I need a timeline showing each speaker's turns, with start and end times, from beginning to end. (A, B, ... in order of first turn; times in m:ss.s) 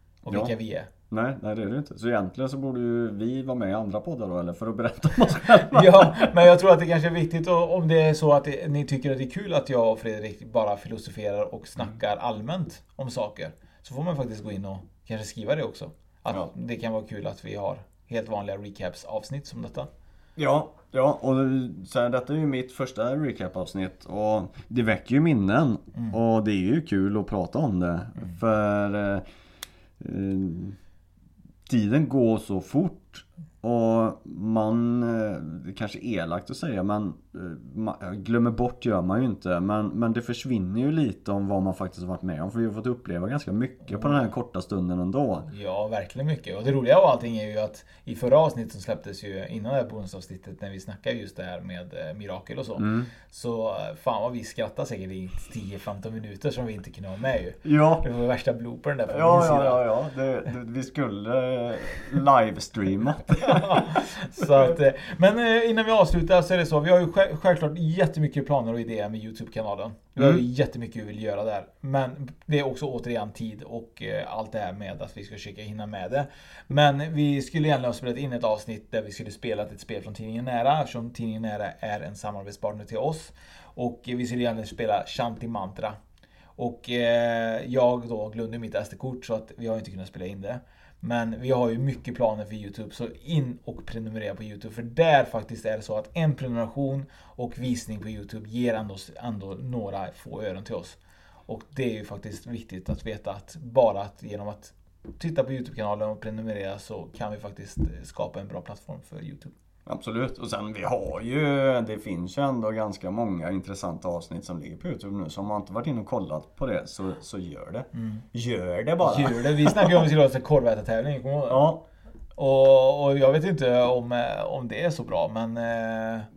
0:00.2-0:00.9 A
0:00.3-0:00.5 B
0:01.1-0:06.3 B
0:05.6-0:19.9 A
0:20.4-0:29.2 B
0:30.0-0:30.8 B
0:31.7-0:45.5 B
0:43.8-0:44.3 A
0:45.5-0:59.8 A
0:52.8-0:53.1 B
0:57.6-0:58.1 B
0:59.1-1:03.8 B
1:03.4-1:26.0 A
1:04.4-1:04.8 B
1:10.2-1:10.4 B
1:26.6-1:49.5 A
1:49.8-2:00.1 B
1:57.9-1:58.2 A
1:59.0-2:01.7 A
2:01.5-2:01.8 B
2:02.4-2:06.3 A